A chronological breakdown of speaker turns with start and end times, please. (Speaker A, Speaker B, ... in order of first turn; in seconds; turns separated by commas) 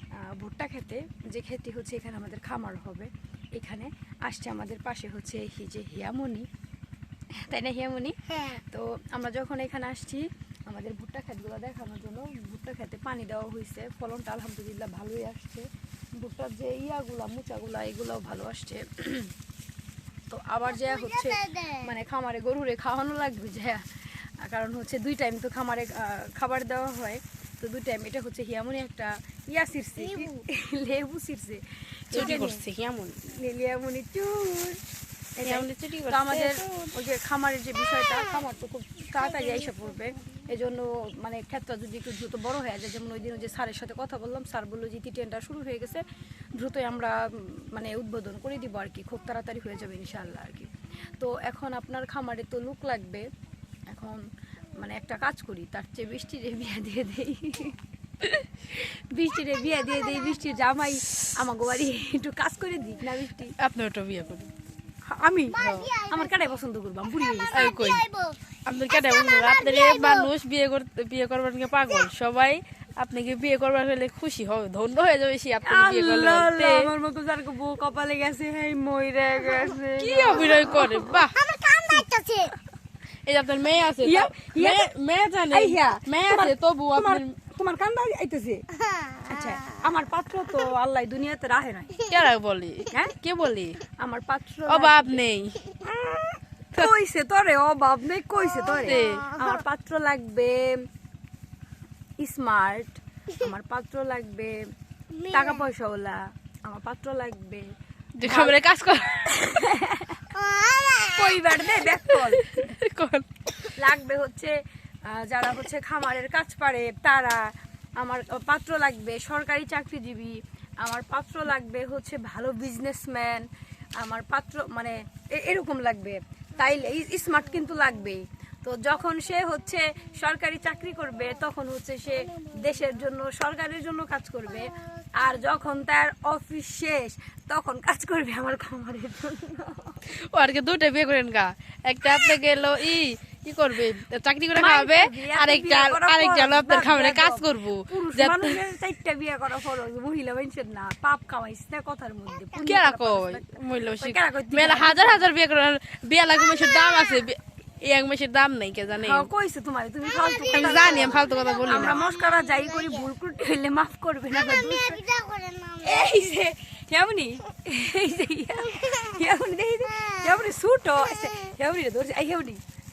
Speaker A: 0.2-6.5, Speaker A: 7.4-19.3, Speaker A: 20.3-23.8, Speaker B: 20.7-21.9, Speaker A: 24.4-32.6, Speaker B: 30.0-30.3, Speaker C: 32.1-33.2, Speaker A: 33.3-34.8, Speaker A: 35.4-46.0, Speaker C: 35.4-36.9, Speaker B: 39.2-39.9, Speaker A: 46.5-53.2, Speaker A: 53.9-54.2, Speaker A: 54.8-63.5, Speaker B: 59.5-60.4, Speaker C: 63.6-64.5, Speaker C: 65.1-65.9, Speaker B: 65.5-66.5, Speaker A: 66.1-67.8, Speaker B: 67.2-68.4, Speaker C: 67.5-68.0, Speaker C: 68.7-76.9, Speaker B: 68.9-70.3, Speaker A: 75.6-81.2, Speaker C: 80.0-81.4, Speaker B: 80.5-82.5, Speaker C: 83.2-87.3, Speaker A: 84.0-84.9, Speaker A: 85.5-88.6, Speaker B: 88.7-89.8, Speaker A: 89.2-91.9, Speaker B: 91.9-92.2, Speaker C: 92.1-93.8, Speaker A: 94.0-95.2, Speaker C: 94.7-95.6, Speaker A: 95.8-100.8, Speaker B: 98.6-99.6, Speaker C: 98.8-99.3, Speaker A: 102.2-104.6, Speaker B: 105.1-105.7, Speaker A: 105.3-107.7, Speaker C: 108.2-109.3, Speaker A: 108.2-108.6, Speaker A: 109.2-110.3, Speaker B: 110.3-111.4, Speaker A: 111.1-112.7, Speaker C: 112.1-113.8, Speaker A: 113.7-114.5, Speaker A: 115.1-117.4, Speaker A: 118.0-123.5, Speaker A: 124.0-140.0, Speaker B: 134.7-135.1, Speaker C: 140.1-148.6, Speaker A: 144.5-155.3, Speaker B: 152.3-152.7, Speaker C: 152.6-159.3, Speaker B: 156.4-157.3, Speaker A: 159.0-165.0, Speaker B: 160.0-163.1, Speaker C: 160.5-162.0, Speaker B: 164.3-166.2, Speaker A: 165.8-172.6, Speaker B: 168.7-169.2, Speaker B: 169.8-171.5